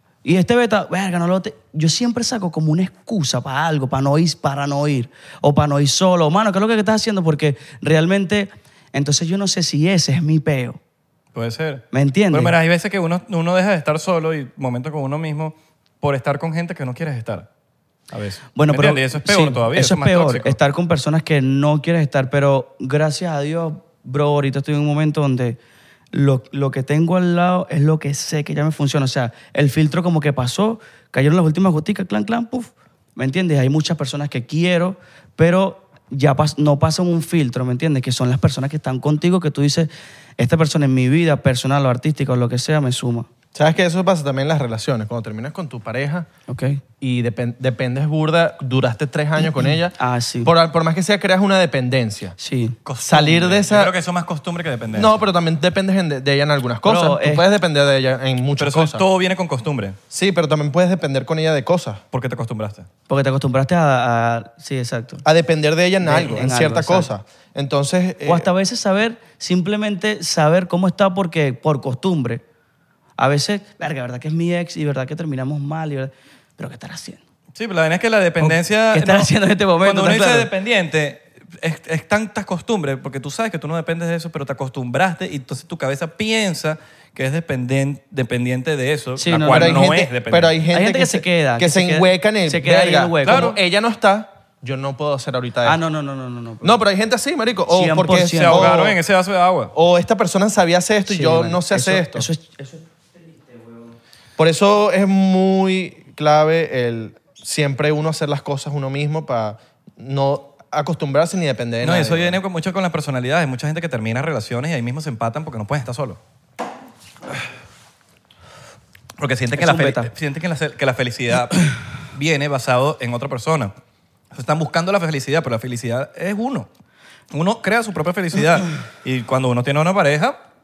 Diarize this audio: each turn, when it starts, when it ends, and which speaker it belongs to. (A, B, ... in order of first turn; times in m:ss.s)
0:00.2-0:10.8 A
0:11.3-0:17.5 B
0:11.9-0:12.5 A
0:18.1-0:20.6 B
0:18.5-0:25.6 A
0:26.1-0:43.3 A
0:43.5-0:46.3 C
0:46.5-0:46.8 A
0:47.0-0:52.3 C
0:50.0-0:50.5 A
0:52.4-0:52.8 A
0:52.8-0:55.2 B
0:53.0-0:53.9 C
0:54.9-0:59.0 C
0:56.8-0:57.4 A
0:58.6-1:00.0 B
1:00.1-1:02.0 C
1:02.1-1:02.9 B
1:03.1-1:05.2 A
1:05.2-1:08.5 C
1:06.0-1:07.1 A
1:08.2-1:12.4 A
1:13.2-1:17.2 A
1:17.5-1:30.6 B
1:18.4-1:20.5 A
1:29.2-1:29.9 A
1:29.4-1:35.8 C
1:30.7-1:33.6 A
1:33.2-1:33.6 B
1:35.6-1:36.8 A
1:36.6-1:39.0 C
1:37.7-1:38.7 A
1:38.3-1:39.7 B
1:39.7-1:42.3 C
1:41.1-1:42.8 A
1:44.4-1:52.4 C
1:51.8-1:56.2 B
1:59.2-2:03.7 B
1:59.6-2:00.1 A
2:04.3-2:06.7 B
2:07.3-2:10.4 B